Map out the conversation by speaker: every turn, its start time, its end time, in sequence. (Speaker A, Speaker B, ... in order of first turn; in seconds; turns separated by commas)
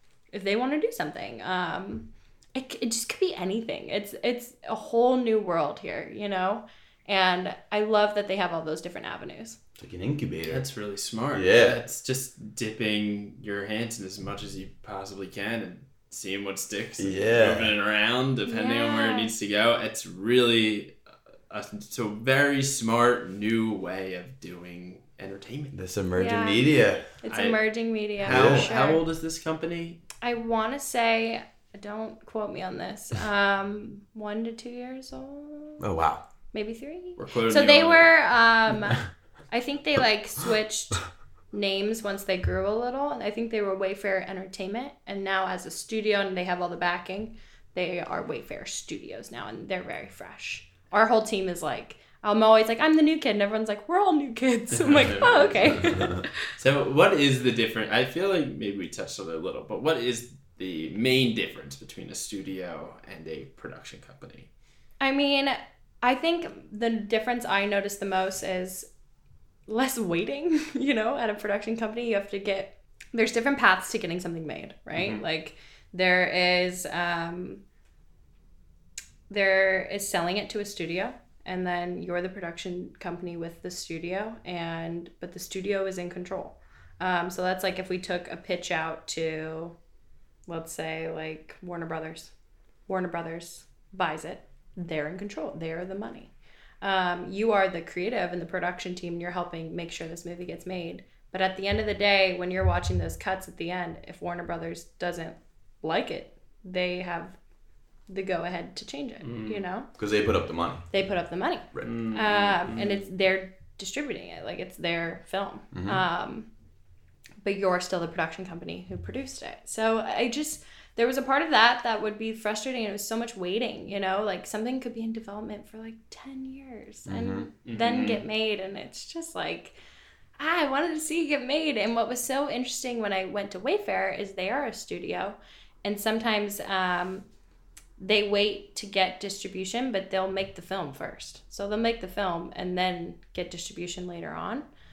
Speaker A: 0.3-9.6, Speaker B: 9.8-10.7, Speaker C: 10.5-21.0, Speaker B: 11.3-11.8, Speaker B: 17.0-17.7, Speaker A: 18.5-19.3, Speaker C: 21.5-25.8, Speaker B: 25.7-27.1, Speaker A: 26.1-29.0, Speaker C: 27.1-30.0, Speaker B: 28.2-28.7, Speaker A: 30.2-35.8, Speaker B: 35.8-36.2, Speaker A: 36.5-56.5, Speaker C: 37.2-38.1, Speaker C: 54.7-55.9, Speaker C: 56.5-64.5, Speaker A: 65.0-68.9, Speaker A: 69.7-77.6, Speaker C: 74.9-75.2, Speaker A: 79.3-89.7, Speaker A: 90.5-92.3, Speaker A: 92.9-107.4, Speaker A: 108.1-109.9, Speaker C: 109.2-109.6, Speaker B: 110.0-110.9, Speaker A: 110.9-116.5, Speaker C: 111.8-113.1, Speaker B: 115.7-116.0, Speaker A: 117.4-129.8, Speaker B: 127.1-127.5, Speaker C: 127.6-128.2, Speaker A: 130.4-137.2, Speaker A: 138.0-144.7